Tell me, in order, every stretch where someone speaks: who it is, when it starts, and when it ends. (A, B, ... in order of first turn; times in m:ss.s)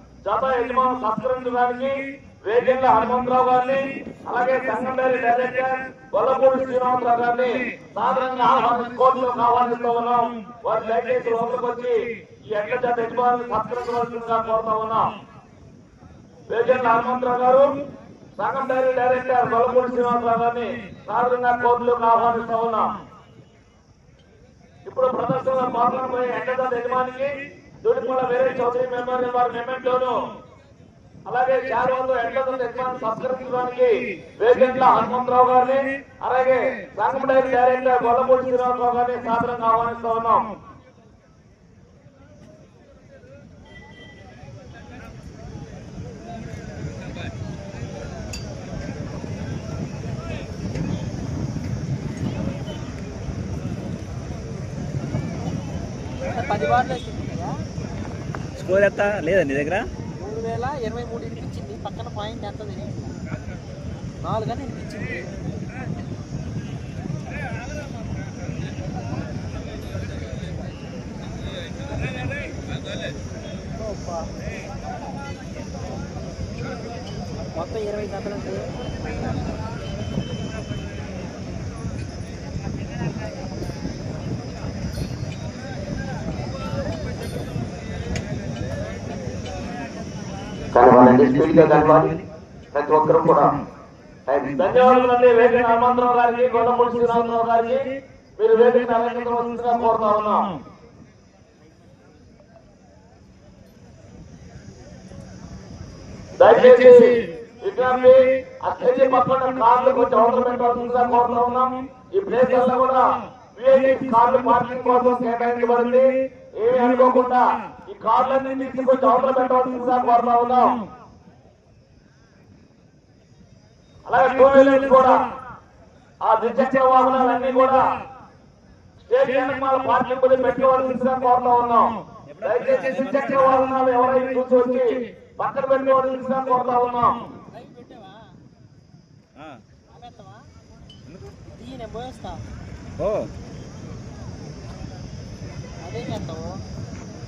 0:00.2-0:12.0 A
0:12.5-0:15.1 A
0:16.5-0:17.7 A
0:18.4-0:22.8 A
0:24.8-0:27.3 A
0:27.8-0:30.2 A
0:31.2-0:40.5 A
0:56.2-0:57.6 B
0:58.6-0:59.9 C
1:00.2-1:03.1 B
1:04.2-1:05.6 B
1:13.7-1:14.3 B
1:17.5-1:18.6 B
1:30.7-1:32.2 D
1:32.7-1:33.5 D
1:34.3-1:34.5 D
1:34.6-1:37.8 A
1:38.4-1:40.5 A
1:46.4-1:53.0 A
1:53.6-2:00.8 A
2:04.0-2:05.3 A
2:06.2-2:07.9 A
2:09.0-2:17.2 A
2:12.3-2:13.5 C
2:17.5-2:18.3 B
2:19.4-2:19.6 C
2:19.9-2:20.4 B
2:21.5-2:22.4 B
2:23.0-2:23.3 C
2:25.8-2:26.6 B